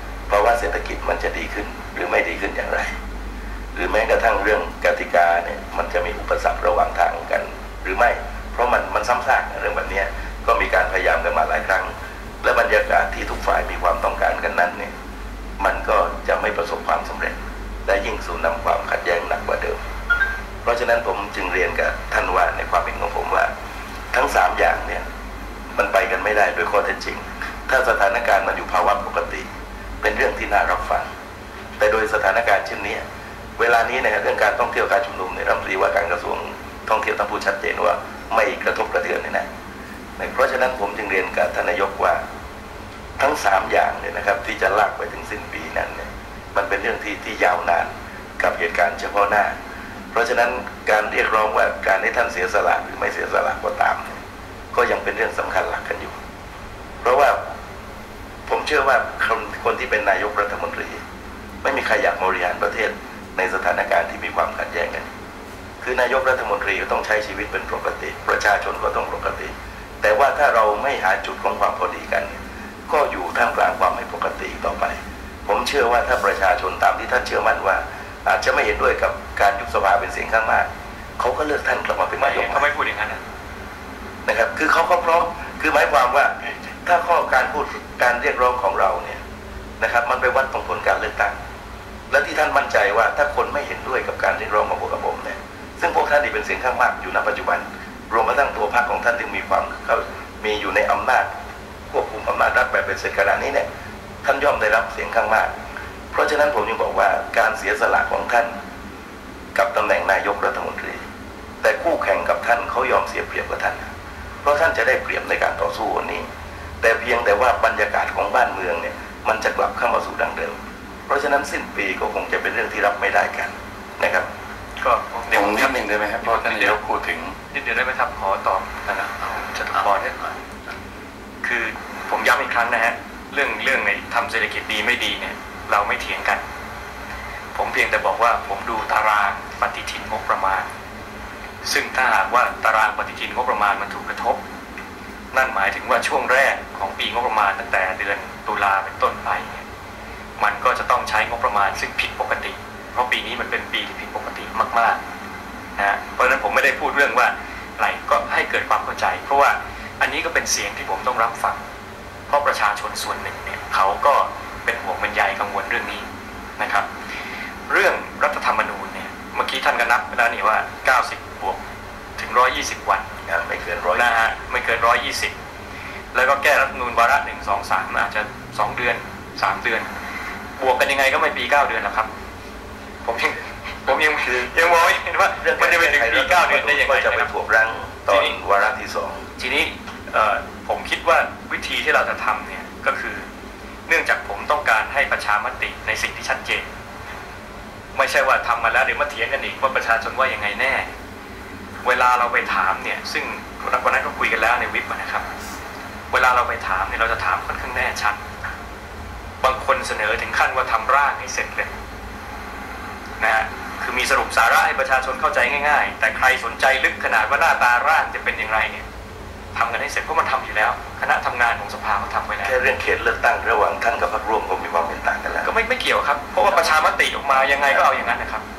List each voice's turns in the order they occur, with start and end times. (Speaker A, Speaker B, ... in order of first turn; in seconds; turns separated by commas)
Speaker A: 0.3-2.9, Speaker A: 3.7-14.9, Speaker A: 15.6-19.8, Speaker A: 20.6-23.5, Speaker A: 24.1-25.0, Speaker A: 25.7-29.4, Speaker A: 30.0-31.1, Speaker A: 31.8-33.0, Speaker A: 33.6-39.5, Speaker A: 40.2-42.2, Speaker A: 43.2-49.5, Speaker A: 50.1-54.2, Speaker A: 54.7-56.1, Speaker A: 57.0-57.4, Speaker A: 58.5-61.0, Speaker A: 61.6-65.1, Speaker A: 65.8-72.3, Speaker A: 72.9-80.7, Speaker A: 81.2-82.7, Speaker B: 82.2-83.2, Speaker A: 84.2-89.2, Speaker A: 89.8-91.3, Speaker A: 92.1-101.3, Speaker A: 101.9-103.7, Speaker A: 104.2-105.5, Speaker A: 106.1-108.5, Speaker A: 109.5-111.0, Speaker A: 111.6-113.8, Speaker A: 114.4-116.2, Speaker A: 116.8-120.5, Speaker A: 121.1-124.3, Speaker B: 124.8-126.8, Speaker C: 125.3-127.3, Speaker B: 127.4-130.4, Speaker B: 131.4-136.4, Speaker B: 137.5-140.7, Speaker B: 141.6-144.4, Speaker B: 145.3-149.7, Speaker B: 150.4-155.0, Speaker B: 155.8-161.6, Speaker B: 162.3-166.1, Speaker B: 166.6-166.9, Speaker B: 167.7-171.6, Speaker B: 172.2-173.1, Speaker A: 173.3-174.1, Speaker B: 173.9-175.3, Speaker B: 176.1-179.9, Speaker B: 180.6-182.1, Speaker B: 183.0-187.3, Speaker A: 184.1-189.2, Speaker B: 188.1-188.4, Speaker B: 189.4-193.2, Speaker B: 193.9-196.7, Speaker B: 197.9-200.9, Speaker B: 201.8-205.2, Speaker B: 206.1-208.2, Speaker B: 209.4-211.7, Speaker B: 213.2-218.8, Speaker B: 219.5-222.6, Speaker A: 222.4-225.5, Speaker B: 225.4-228.4, Speaker A: 226.5-226.8, Speaker A: 227.6-227.9